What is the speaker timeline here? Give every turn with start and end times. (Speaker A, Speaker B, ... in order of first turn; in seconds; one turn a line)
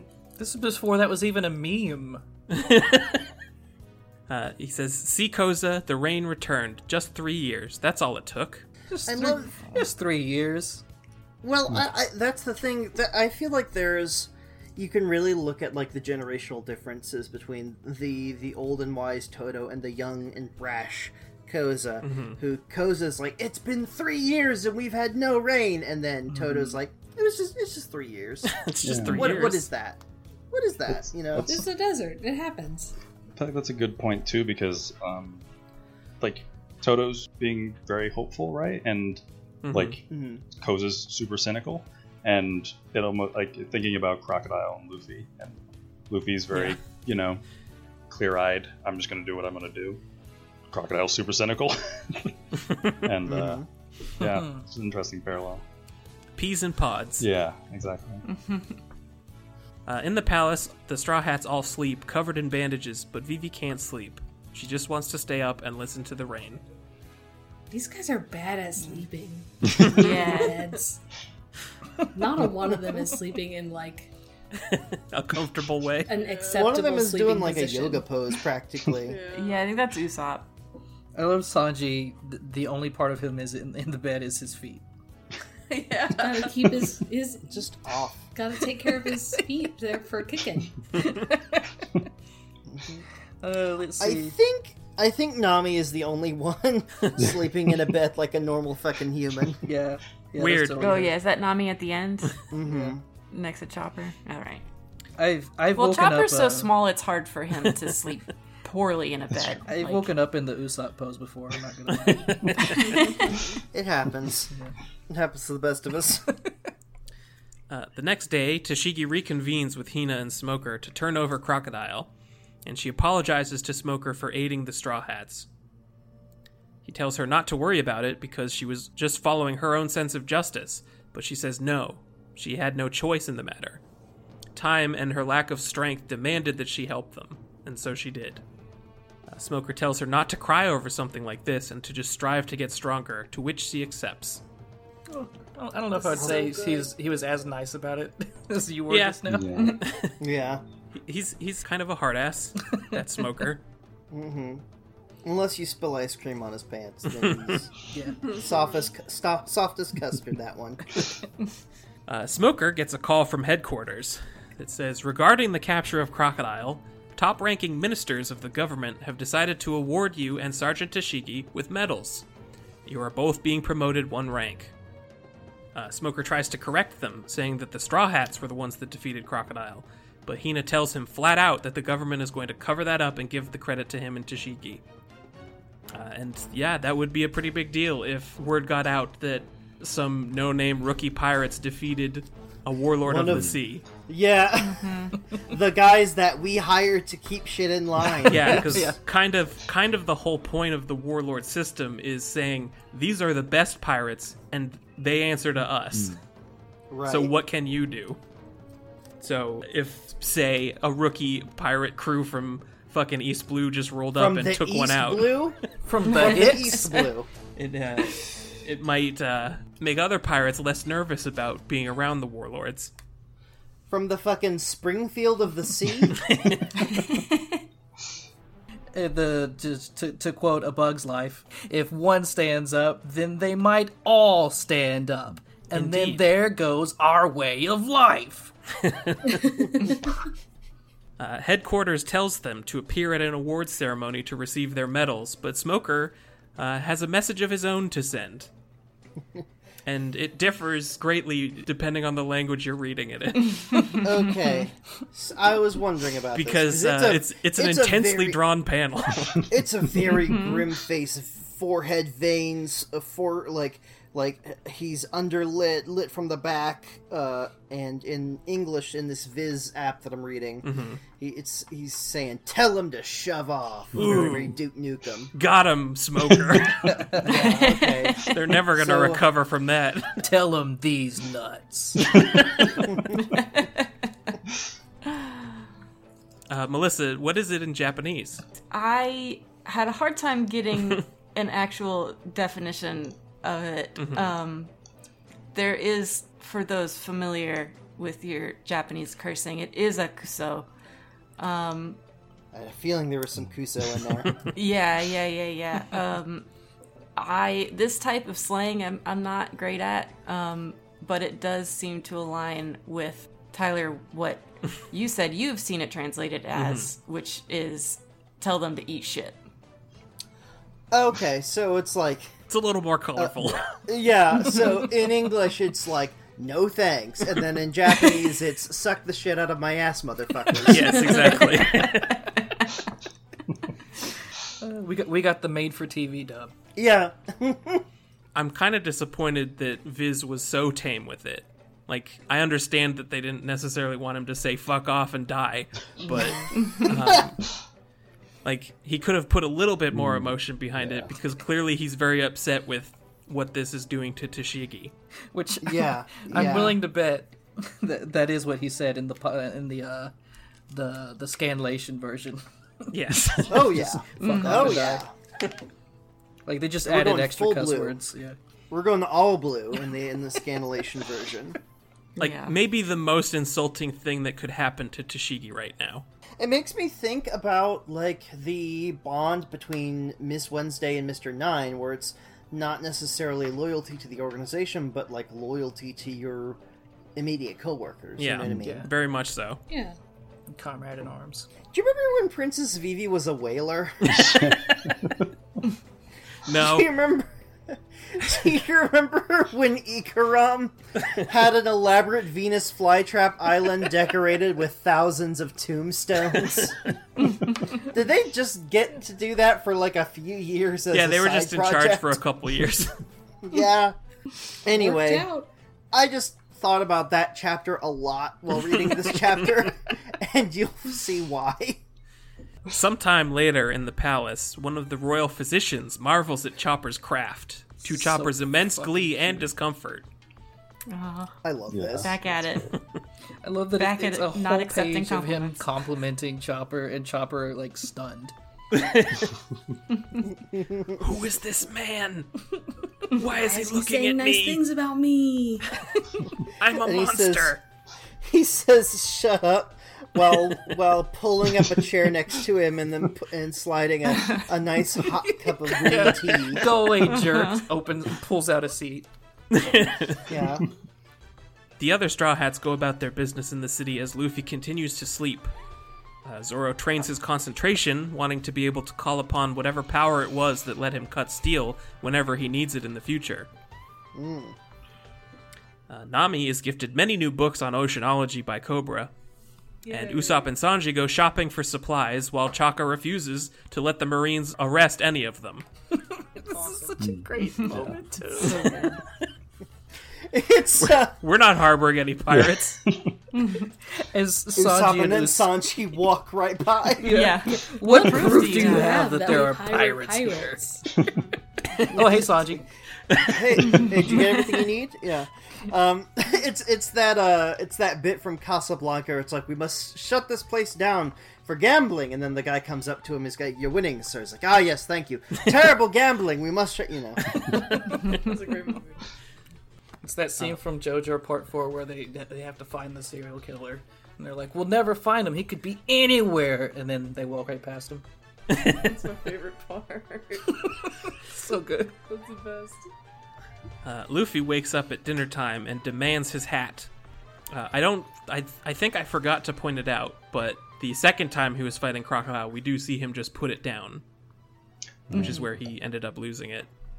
Speaker A: 0.4-2.2
Speaker B: 2.5-3.2
Speaker B: 4.3-8.7
Speaker A: 8.9-10.8
Speaker C: 9.1-9.8
Speaker C: 11.4-31.5
Speaker B: 22.0-22.4
Speaker A: 26.3-26.8
Speaker B: 28.4-29.7
Speaker D: 28.8-29.4
Speaker D: 30.9-31.6
Speaker E: 31.4-32.9
Speaker D: 33.3-35.4
Speaker D: 36.2-40.0
Speaker B: 39.6-40.0
Speaker C: 40.1-40.4
Speaker D: 40.5-47.4
Speaker B: 46.5-46.8
Speaker D: 48.1-50.0
Speaker D: 50.7-52.4
Speaker D: 53.0-53.6
Speaker C: 53.2-53.6
Speaker D: 54.1-55.6
Speaker A: 54.3-54.6
Speaker B: 56.4-57.2
Speaker D: 57.2-58.2
Speaker F: 58.3-58.8
Speaker B: 59.9-66.6
Speaker E: 67.7-71.0
Speaker F: 69.8-70.6
Speaker E: 72.1-74.1
Speaker B: 74.5-76.1
Speaker E: 76.1-78.0
Speaker G: 76.1-76.8
Speaker C: 76.5-79.2
Speaker G: 79.0-79.7
Speaker F: 79.3-80.5
Speaker A: 81.1-84.8
Speaker G: 85.7-86.8
Speaker E: 86.2-87.6
Speaker C: 87.5-88.3
Speaker E: 88.3-90.8
Speaker A: 91.0-92.0
Speaker C: 92.7-93.0
Speaker A: 93.4-94.3
Speaker C: 94.0-99.6
Speaker A: 99.6-101.2
Speaker B: 100.3-101.0
Speaker F: 100.8-102.4
Speaker C: 102.5-103.0
Speaker A: 102.6-102.9
Speaker F: 103.3-104.6
Speaker A: 105.2-106.8
Speaker F: 105.7-110.1
Speaker A: 109.7-112.9
Speaker C: 113.7-114.5
Speaker C: 115.1-116.2
Speaker B: 117.7-122.1
Speaker B: 122.6-125.5
Speaker B: 126.8-133.8
Speaker B: 134.5-138.4
Speaker B: 139.3-144.4
Speaker A: 145.1-149.6
Speaker E: 145.9-146.9
Speaker C: 146.2-146.6
Speaker B: 148.9-150.2
Speaker D: 149.3-149.8
Speaker C: 150.2-150.6
Speaker B: 151.0-153.6
Speaker C: 154.1-154.6
Speaker C: 155.2-157.7
Speaker B: 157.1-157.6
Speaker A: 157.9-158.2
Speaker G: 158.2-158.7
Speaker C: 158.3-161.0
Speaker B: 162.1-172.2
Speaker B: 172.8-174.7
Speaker B: 175.7-184.8
Speaker B: 185.9-193.8
Speaker C: 193.0-198.8
Speaker D: 193.2-193.5
Speaker F: 194.6-195.1
Speaker B: 198.2-206.2
Speaker A: 198.3-199.0
Speaker D: 205.9-206.2
Speaker C: 206.9-207.3
Speaker B: 207.1-208.2
Speaker B: 209.2-215.6
Speaker C: 214.1-217.3
Speaker A: 215.8-216.8
Speaker B: 217.6-222.9
Speaker C: 223.9-226.2
Speaker B: 226.2-226.6
Speaker F: 227.0-227.5
Speaker A: 228.9-238.5
Speaker B: 235.7-236.2
Speaker B: 238.8-239.9
Speaker B: 241.2-248.5
Speaker B: 249.8-254.0
Speaker F: 253.6-254.3
Speaker C: 254.0-258.4
Speaker B: 256.3-259.4
Speaker C: 259.5-270.7
Speaker F: 260.3-260.6
Speaker B: 270.6-271.0
Speaker C: 271.2-275.3
Speaker B: 273.9-274.5
Speaker B: 275.3-277.0
Speaker A: 276.9-277.3
Speaker C: 277.2-279.3
Speaker F: 277.3-278.3
Speaker B: 278.3-280.1
Speaker A: 280.2-282.1
Speaker F: 283.3-283.9
Speaker B: 286.5-288.4
Speaker F: 288.7-294.7
Speaker B: 294.0-294.2
Speaker F: 295.5-300.7
Speaker F: 301.4-302.0
Speaker C: 302.5-304.3
Speaker F: 304.5-306.5
Speaker F: 307.1-319.4
Speaker B: 316.5-316.9
Speaker C: 320.9-322.3
Speaker B: 322.5-323.6
Speaker C: 323.1-331.5
Speaker B: 330.6-332.4
Speaker F: 331.6-331.9
Speaker A: 334.6-336.5
Speaker C: 336.8-337.8
Speaker B: 338.3-347.4
Speaker F: 346.6-346.9
Speaker C: 346.9-347.2
Speaker B: 348.4-354.9
Speaker D: 349.9-351.1
Speaker A: 355.3-360.1
Speaker C: 355.6-356.8
Speaker A: 360.7-365.0
Speaker B: 362.9-363.8
Speaker C: 363.5-365.1
Speaker F: 364.2-364.7
Speaker A: 366.4-368.4
Speaker C: 366.8-368.0
Speaker C: 368.7-371.6
Speaker F: 372.2-372.5
Speaker B: 372.2-376.0
Speaker C: 376.4-386.6
Speaker C: 387.1-388.9
Speaker B: 388.2-389.6
Speaker A: 388.5-388.9
Speaker E: 389.7-389.9
Speaker A: 390.5-391.5
Speaker C: 391.7-394.4
Speaker D: 394.2-395.1
Speaker B: 396.4-396.9
Speaker C: 396.5-406.8
Speaker C: 407.7-412.2
Speaker B: 410.9-412.9
Speaker C: 413.4-413.9
Speaker C: 414.6-415.3
Speaker E: 414.8-415.5
Speaker C: 415.9-421.8
Speaker B: 422.7-430.1
Speaker A: 427.8-429.5
Speaker F: 430.9-431.3
Speaker C: 431.4-432.1
Speaker D: 431.7-432.8
Speaker F: 432.0-432.7
Speaker A: 433.4-438.3
Speaker F: 433.7-435.6
Speaker B: 438.7-439.3
Speaker C: 440.3-441.0
Speaker B: 441.0-442.3
Speaker B: 443.1-444.6
Speaker E: 443.3-445.8
Speaker B: 446.6-447.6
Speaker C: 446.6-447.6
Speaker C: 448.2-456.9
Speaker A: 455.7-459.1
Speaker F: 457.1-457.6
Speaker B: 459.5-460.2
Speaker C: 460.3-460.6
Speaker B: 461.8-465.5
Speaker B: 466.2-473.5
Speaker C: 474.1-474.6
Speaker B: 475.9-479.1
Speaker G: 479.9-480.5
Speaker B: 479.9-485.6
Speaker A: 486.4-488.8
Speaker G: 486.5-486.9
Speaker D: 487.0-488.0
Speaker G: 487.7-488.8
Speaker F: 488.4-488.9
Speaker C: 490.3-491.1
Speaker B: 490.8-492.8
Speaker D: 492.3-493.1
Speaker F: 493.3-493.7
Speaker A: 494.0-495.5
Speaker C: 494.5-497.4
Speaker A: 497.0-500.6
Speaker F: 497.1-499.0
Speaker E: 497.8-500.9
Speaker A: 501.8-502.6
Speaker C: 501.9-502.2
Speaker B: 503.1-504.0
Speaker C: 503.2-517.2
Speaker G: 517.8-519.0
Speaker A: 520.0-528.0
Speaker B: 528.5-528.9
Speaker G: 528.6-530.6
Speaker A: 530.5-531.9
Speaker G: 532.1-532.9
Speaker B: 533.8-536.9
Speaker B: 537.5-544.0
Speaker D: 545.1-545.5
Speaker B: 545.1-546.7